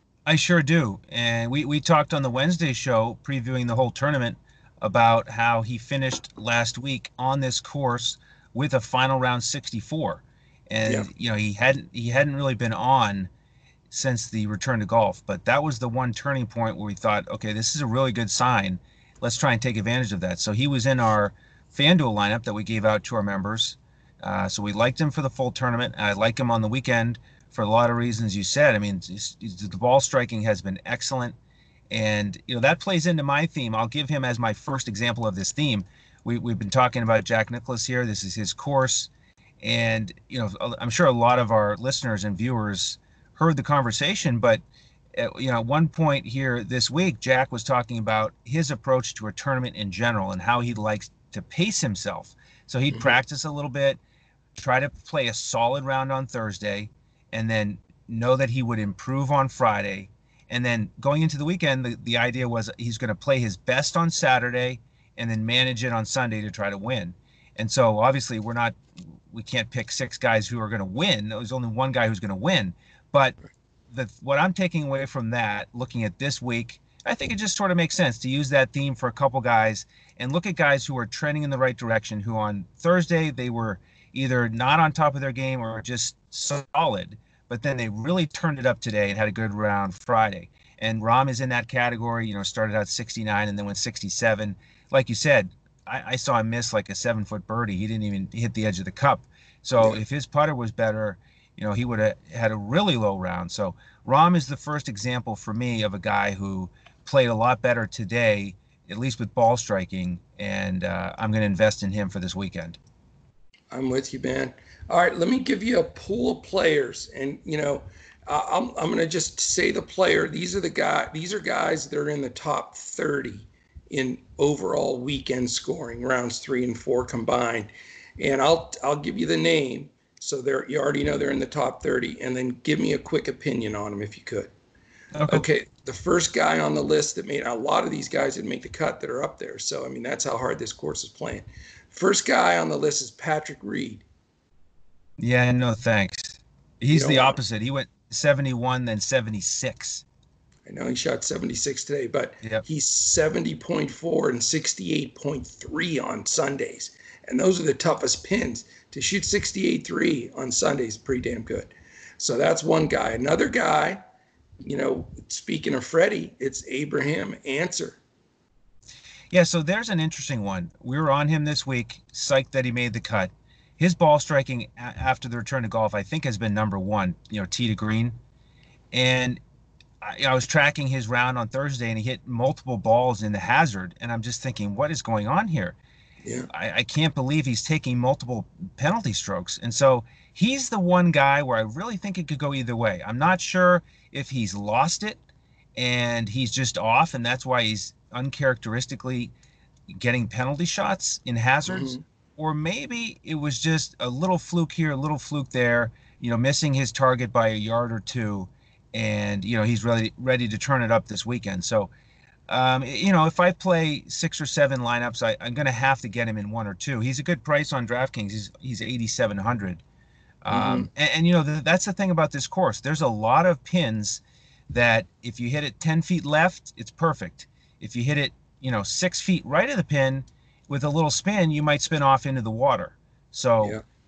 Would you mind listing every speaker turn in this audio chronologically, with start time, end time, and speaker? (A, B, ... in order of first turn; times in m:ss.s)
0:00.2-0:13.3 A
0:13.9-0:31.4 A
0:31.9-0:44.6 A
0:45.2-0:54.0 A
0:52.9-0:53.2 B
0:54.5-1:13.4 A
1:13.9-1:52.8 A
1:53.7-2:14.5 B
2:15.1-2:15.4 A
2:15.3-2:24.0 B
2:25.2-2:30.0 A
2:26.9-2:27.4 B
2:30.6-2:44.0 B
2:44.6-2:48.0 B
2:49.3-2:58.2 A
2:58.9-2:59.4 A
3:00.0-3:05.8 A
3:06.2-3:06.5 B
3:06.5-3:15.2 A
3:15.8-3:19.3 A
3:19.9-3:31.9 A
3:21.6-3:22.0 B
3:32.5-3:39.8 A
3:40.4-3:53.8 A
3:40.5-3:40.9 B